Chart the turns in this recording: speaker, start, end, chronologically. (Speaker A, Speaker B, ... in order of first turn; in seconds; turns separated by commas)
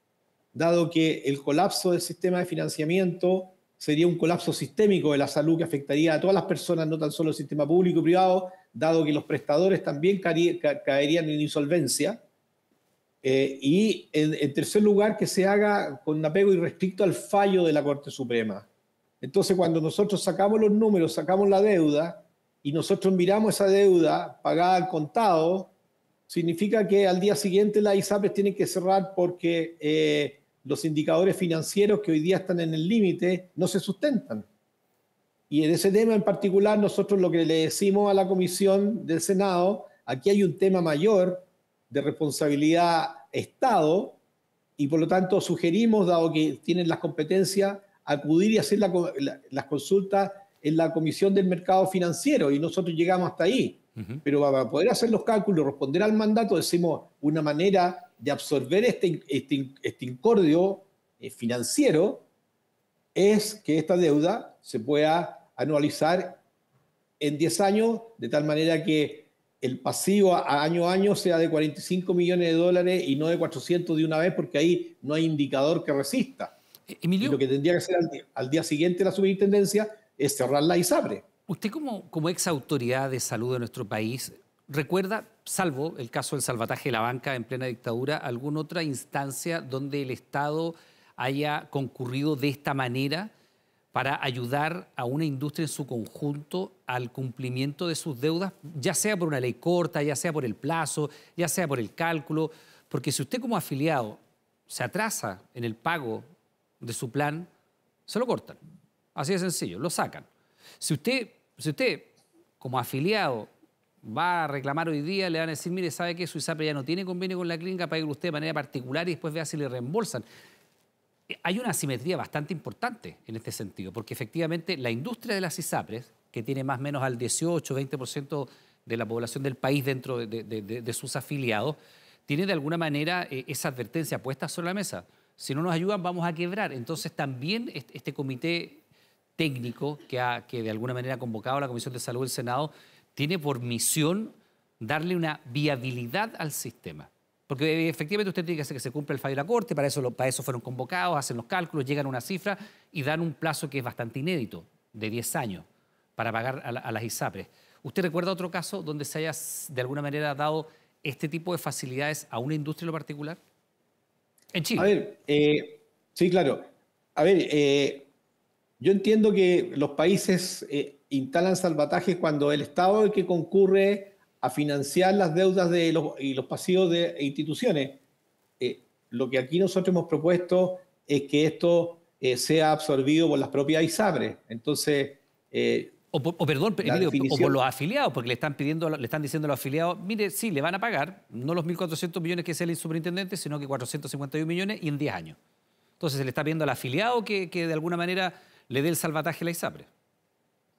Speaker A: 0.5-12.2, Speaker A: 13.2-18.7, Speaker A: 19.2-25.7, Speaker A: 26.3-34.5, Speaker A: 35.5-44.2, Speaker A: 44.8-62.2, Speaker A: 63.1-66.4, Speaker A: 67.2-76.5, Speaker B: 76.9-77.4, Speaker A: 77.2-81.2, Speaker B: 81.5-93.3, Speaker B: 93.9-106.2, Speaker B: 106.8-107.5, Speaker B: 108.1-108.6, Speaker B: 109.1-110.3, Speaker B: 110.8-113.5, Speaker B: 114.0-120.2, Speaker B: 121.4-138.8, Speaker B: 139.4-155.6, Speaker B: 156.2-163.4, Speaker B: 164.5-164.9, Speaker A: 164.8-166.6, Speaker A: 167.2-168.1, Speaker A: 168.8-178.0, Speaker A: 178.6-185.9, Speaker B: 186.1-195.4, Speaker A: 186.8-187.6, Speaker B: 196.0-199.9